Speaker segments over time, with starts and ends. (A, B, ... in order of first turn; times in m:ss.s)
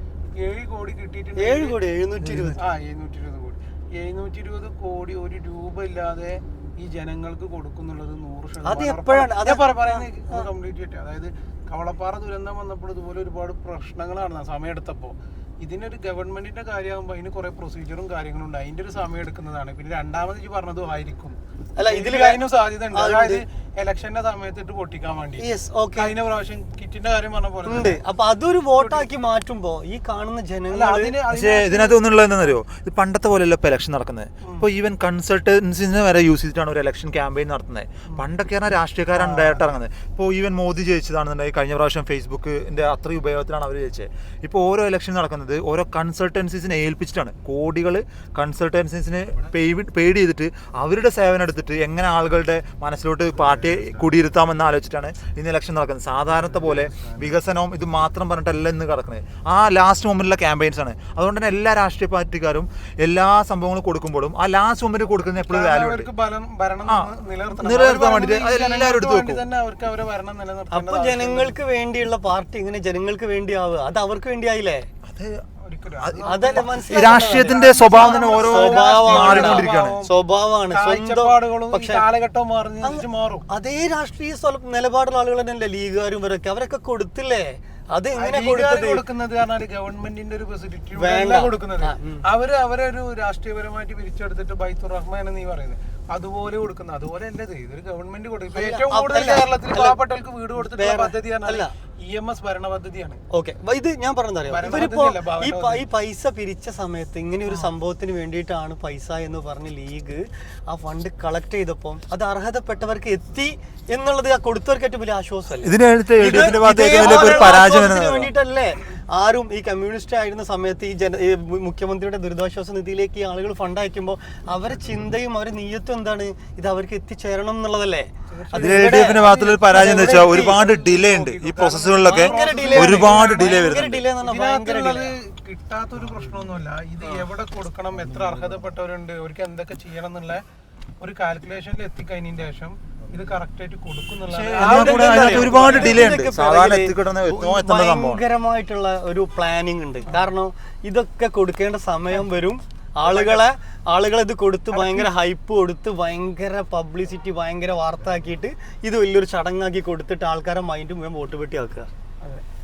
0:00.4-0:01.8 A
0:01.4-0:02.6 B
0:02.2-0:02.6 C
0:02.6-0:28.0 A
0:08.6-0:10.5 B
0:21.8-0:23.4 B
0:25.4-0:26.1 B
0:27.6-0:31.2 B
0:28.8-0:29.1 A
0:30.7-0:32.6 A
0:31.3-1:06.1 C
0:39.1-0:39.8 A
1:05.4-1:11.6 A
1:06.9-1:09.4 C
1:10.7-1:14.9 B
1:15.1-1:15.4 C
1:15.6-1:20.1 A
1:16.0-1:20.0 C
1:16.2-1:22.0 B
1:20.7-1:23.4 A
1:22.8-1:29.0 B
1:28.1-1:43.2 A
1:30.9-1:32.2 B
1:38.5-1:40.0 B
1:40.6-1:41.7 B
1:43.3-2:10.6 B
1:44.5-1:45.9 A
1:55.6-1:58.3 C
2:08.3-2:20.4 A
2:08.6-2:14.1 C
2:12.0-2:15.1 B
2:21.0-2:26.1 A
2:24.3-2:28.2 C
2:24.6-2:41.9 B
2:33.0-2:33.4 A
2:34.7-2:35.1 A